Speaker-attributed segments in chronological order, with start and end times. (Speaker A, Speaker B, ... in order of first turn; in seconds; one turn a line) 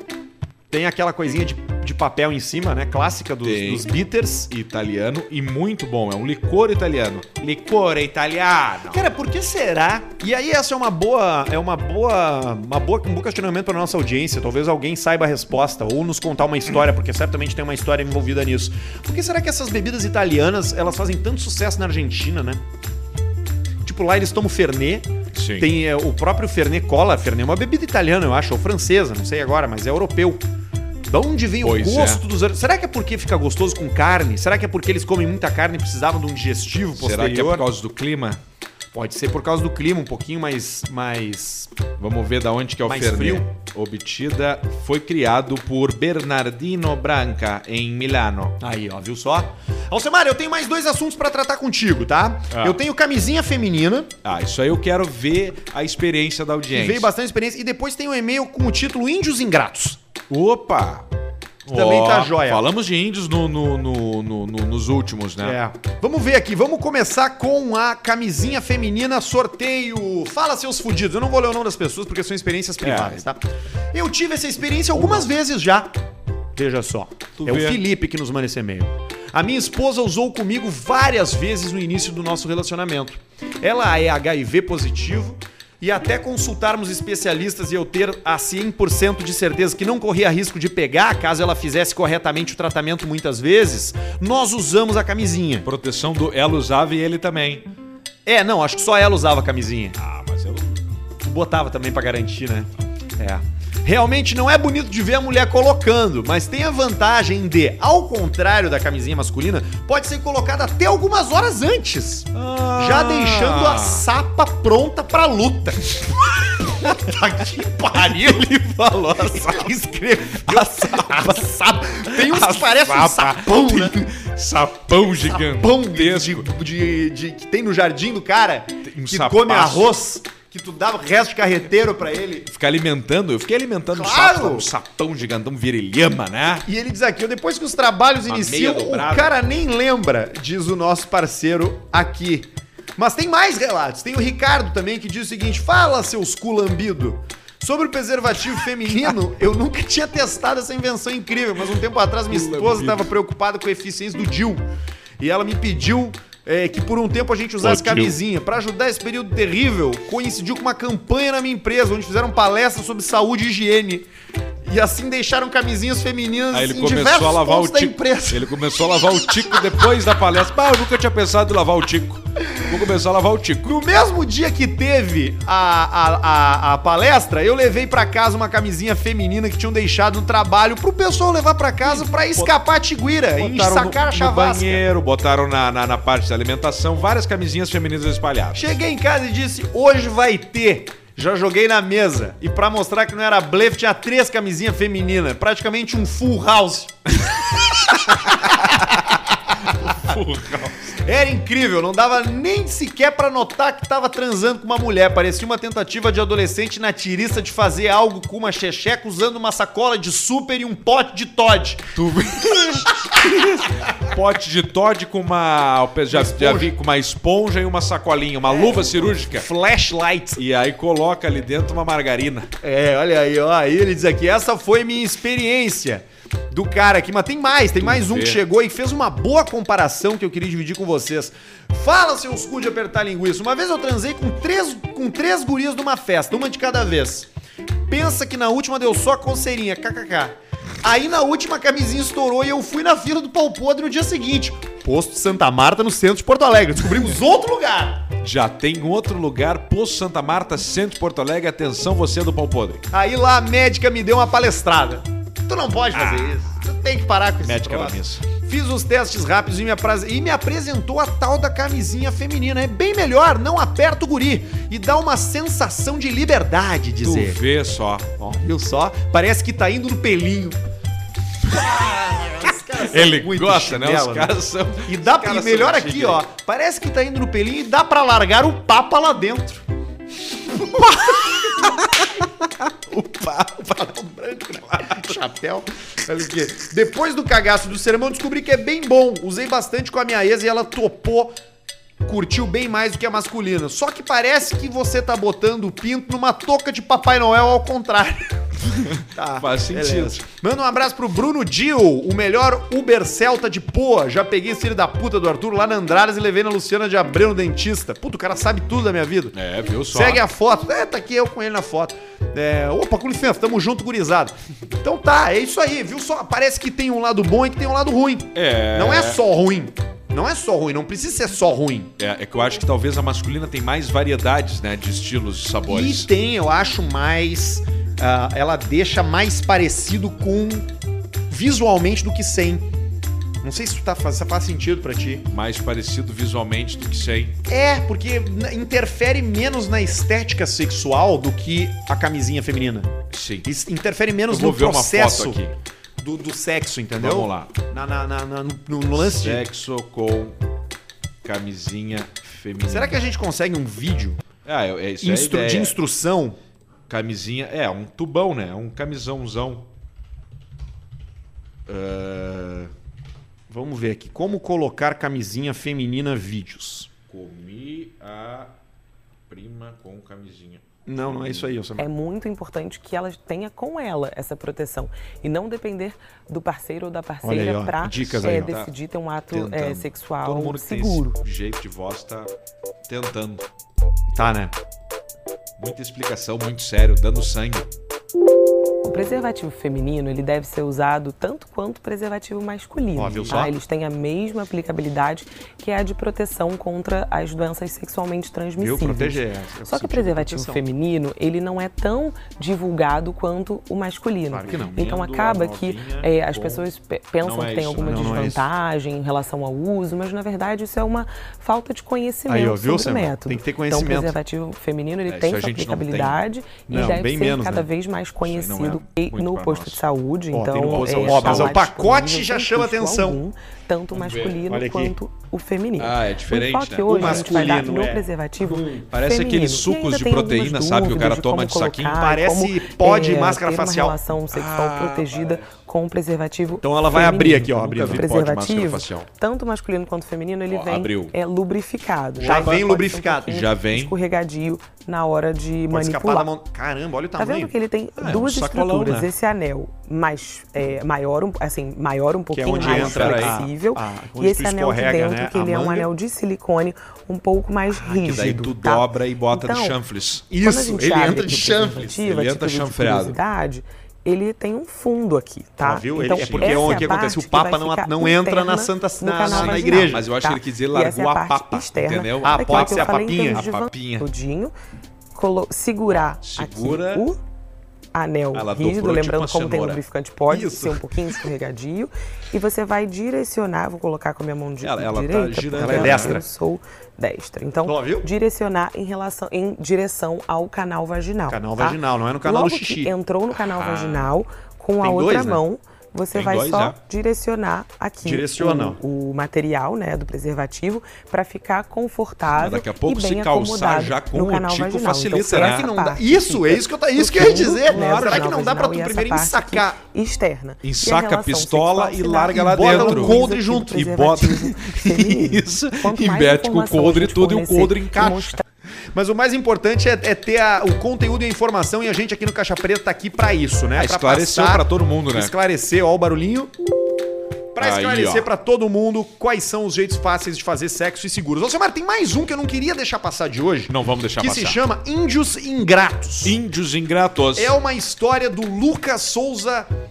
Speaker A: 0.7-4.5
Speaker B: 3.4-4.0
Speaker B: 4.5-9.1
Speaker A: 8.9-22.6
Speaker A: 23.8-30.4
Speaker B: 25.3-25.7
Speaker A: 31.1-37.6
Speaker B: 31.6-32.2
Speaker B: 37.0-38.4
Speaker A: 38.9-41.7
Speaker B: 42.0-48.6
Speaker A: 42.8-43.5
Speaker A: 48.6-54.1
Speaker B: 52.5-52.8
Speaker B: 54.2-57.1
Speaker A: 56.7-60.0
Speaker B: 60.3-61.0
Speaker B: 61.6-65.6
Speaker A: 61.7-62.6
Speaker A: 65.4-73.4
Speaker B: 72.8-73.2
Speaker A: 73.9-75.9
Speaker B: 74.9-75.3
Speaker A: 76.5-95.7
Speaker B: 77.4-77.8
Speaker B: 95.6-97.7
Speaker A: 98.2-100.0
Speaker B: 100.0-100.8
Speaker A: 101.2-116.0
Speaker B: 112.3-114.0
Speaker A: 116.6-124.1
Speaker B: 118.2-119.7
Speaker B: 120.4-121.4
Speaker B: 122.1-126.5
Speaker A: 125.2-132.5
Speaker B: 128.8-129.9
Speaker B: 132.5-136.7
Speaker A: 133.9-134.7
Speaker A: 136.6-154.6
Speaker B: 138.2-139.3
Speaker B: 152.3-153.1
Speaker A: 155.2-164.1
Speaker B: 157.6-158.2
Speaker A: 164.6-168.6
Speaker B: 166.5-173.8
Speaker A: 173.6-184.8
Speaker B: 181.8-182.5
Speaker B: 183.4-188.8
Speaker A: 188.5-196.9
Speaker B: 197.9-199.0
Speaker A: 197.9-199.1
Speaker B: 199.8-201.0
Speaker A: 199.8-200.1
Speaker A: 201.0-211.9
Speaker B: 211.9-219.5
Speaker A: 216.1-216.7
Speaker A: 218.5-220.4
Speaker B: 220.4-222.5
Speaker A: 222.6-237.3
Speaker B: 227.8-228.4
Speaker A: 237.9-248.1
Speaker B: 248.2-252.8
Speaker A: 252.9-267.4
Speaker B: 255.9-256.5
Speaker B: 257.4-258.3
Speaker B: 267.0-268.1
Speaker A: 268.2-270.6
Speaker B: 271.5-276.2
Speaker A: 271.5-279.6
Speaker B: 280.6-282.0
Speaker A: 280.7-281.7
Speaker B: 282.9-283.7
Speaker A: 283.5-291.3
Speaker A: 292.0-298.4
Speaker B: 298.6-300.2
Speaker A: 299.1-309.4
Speaker B: 309.3-310.2
Speaker A: 309.9-321.9
Speaker B: 318.3-319.2
Speaker B: 322.0-326.1
Speaker A: 325.7-330.7
Speaker A: 331.3-332.7
Speaker A: 333.4-335.2
Speaker B: 335.3-337.4
Speaker A: 337.5-342.9
Speaker B: 343.1-343.4
Speaker A: 343.4-345.4
Speaker B: 344.3-345.6
Speaker A: 346.0-349.4
Speaker B: 346.9-347.5
Speaker B: 348.9-350.4
Speaker B: 351.2-353.0
Speaker A: 352.7-354.2
Speaker B: 354.4-355.8
Speaker A: 355.0-356.4
Speaker B: 356.9-359.7
Speaker B: 361.7-362.7
Speaker A: 363.5-366.9
Speaker B: 367.1-368.5
Speaker B: 369.3-371.5
Speaker A: 370.9-371.9
Speaker C: 371.8-381.2
Speaker A: 377.2-378.5
Speaker B: 377.9-378.7
Speaker B: 379.3-382.3
Speaker B: 382.9-383.4
Speaker A: 384.1-384.5
Speaker B: 385.6-387.7
Speaker C: 388.8-446.3
Speaker A: 392.9-393.5
Speaker A: 398.6-400.6
Speaker A: 404.3-404.8
Speaker B: 404.4-406.7
Speaker B: 407.2-408.4
Speaker A: 407.8-408.4
Speaker A: 412.3-414.1
Speaker B: 415.0-416.2
Speaker A: 416.7-417.7
Speaker B: 418.2-419.8
Speaker A: 420.3-423.2
Speaker B: 420.5-421.6
Speaker B: 423.9-424.4
Speaker A: 424.5-425.0
Speaker B: 425.8-427.7
Speaker A: 426.9-428.8
Speaker B: 428.7-432.0
Speaker A: 432.0-433.9
Speaker B: 434.3-435.5
Speaker A: 436.6-438.1
Speaker B: 437.5-439.1
Speaker B: 440.5-441.1
Speaker B: 442.2-442.6
Speaker A: 442.2-443.3
Speaker B: 443.3-443.9
Speaker A: 445.7-447.5
Speaker C: 447.2-459.8
Speaker B: 448.0-449.1
Speaker A: 452.3-455.9
Speaker B: 452.5-453.4
Speaker B: 457.7-460.3
Speaker A: 460.3-462.0
Speaker C: 460.4-474.5
Speaker B: 462.0-463.2
Speaker A: 465.6-470.0
Speaker B: 466.1-467.0
Speaker B: 469.3-474.1
Speaker A: 472.2-473.4
Speaker C: 475.1-477.2
Speaker B: 476.2-477.1
Speaker C: 477.9-518.4
Speaker B: 478.3-479.8
Speaker A: 480.3-480.8
Speaker B: 484.6-486.2
Speaker A: 485.6-486.2
Speaker A: 487.6-488.1
Speaker A: 491.3-492.9
Speaker B: 493.3-494.1
Speaker A: 494.8-495.4
Speaker B: 496.1-496.8
Speaker A: 498.0-498.8
Speaker B: 502.3-505.7
Speaker A: 505.2-509.8
Speaker B: 507.6-508.3
Speaker B: 510.6-518.4
Speaker A: 512.3-514.2
Speaker A: 518.9-526.5
Speaker B: 523.7-525.3
Speaker A: 527.5-536.4
Speaker B: 527.6-528.3
Speaker B: 533.7-534.6
Speaker B: 536.2-537.5
Speaker A: 537.4-539.7